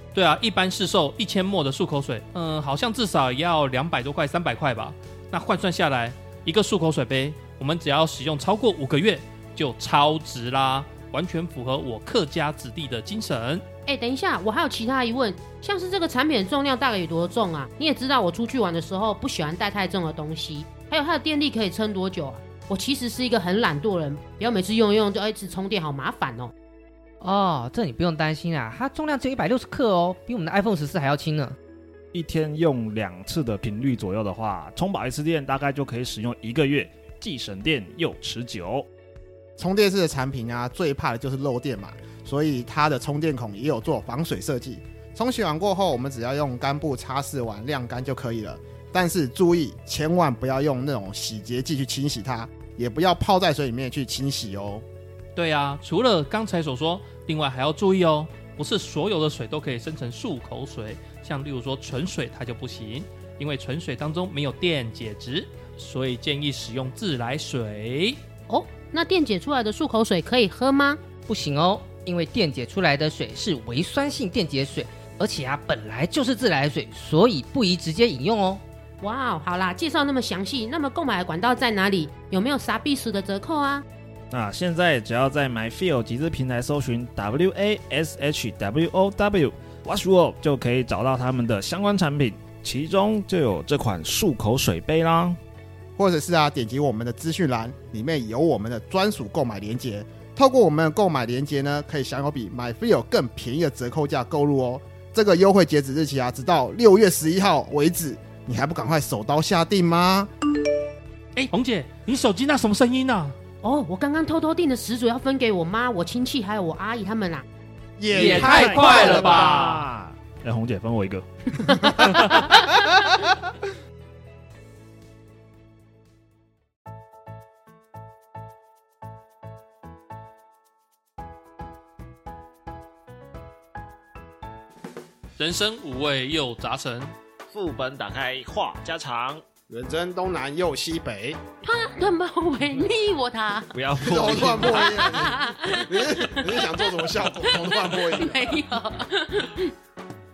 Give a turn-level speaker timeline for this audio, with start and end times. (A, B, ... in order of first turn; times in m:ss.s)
0:00.2-0:13.6 A
0:13.9-0:26.5 B
0:27.2-0:31.6 C
0:32.1-0:38.9 D
0:39.6-0:54.9 E
0:55.4-1:08.2 A
1:08.5-1:11.0 B
1:11.3-1:18.6 C
1:19.0-1:23.8 B
1:24.3-1:35.4 D
1:36.0-1:50.3 E
1:51.4-1:53.4 A
1:53.6-1:57.5 B
1:58.0-1:59.6 E
1:58.1-1:59.9 A
1:58.2-1:59.5 F
1:58.2-2:01.2 D
2:01.6-2:02.8 B
2:15.4-2:17.1 A
2:17.5-2:19.4 F
2:19.7-2:21.4 E
2:21.6-2:29.7 B
2:23.7-2:25.1 F
2:24.0-2:28.6 E